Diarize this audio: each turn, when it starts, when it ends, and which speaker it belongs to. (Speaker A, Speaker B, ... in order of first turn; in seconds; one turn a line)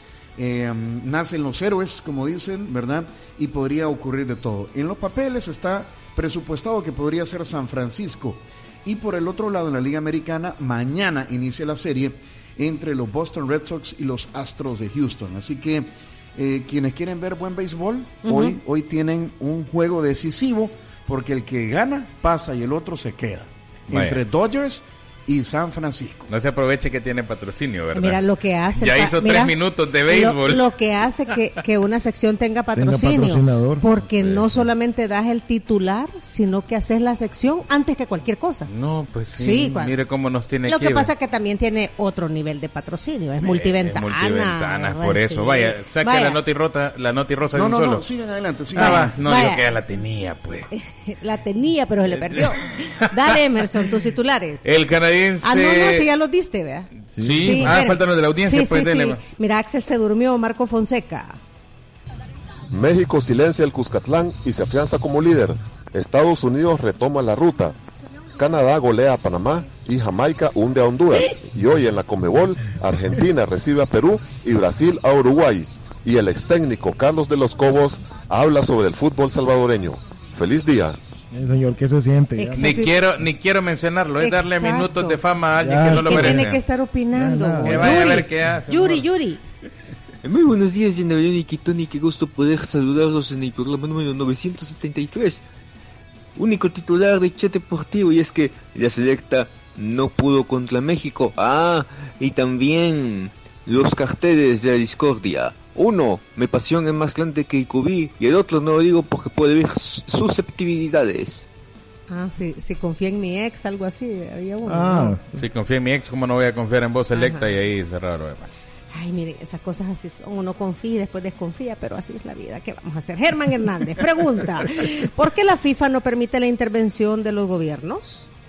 Speaker A: 0.4-26.3
Speaker B: 18.2-18.6
Speaker C: 23.9-24.2
Speaker C: 26.3-28.2
Speaker B: 27.9-38.7
Speaker C: 28.8-30.7
Speaker D: 32.8-33.9
Speaker C: 34.0-34.7
Speaker C: 38.7-41.1
Speaker B: 39.4-40.0
Speaker B: 40.6-46.4
Speaker C: 43.4-48.1
Speaker A: 47.5-49.4
Speaker C: 48.7-50.7
Speaker B: 48.8-49.6
Speaker B: 50.7-54.6
Speaker C: 54.6-56.1
Speaker B: 55.4-61.4
Speaker D: 57.2-57.8
Speaker C: 57.2-59.2
Speaker E: 62.7-67.8
Speaker E: 68.4-81.0
Speaker D: 81.3-82.8
Speaker B: 82.4-83.0
Speaker C: 82.6-86.6
Speaker B: 84.2-85.2
Speaker D: 85.6-86.5
Speaker B: 85.9-89.4
Speaker D: 87.1-88.2
Speaker C: 87.6-89.1
Speaker F: 90.2-95.4
Speaker F: 96.4-111.5
Speaker B: 112.1-115.2
Speaker D: 114.7-115.5
Speaker C: 115.4-118.6
Speaker B: 117.1-117.5
Speaker B: 118.9-128.3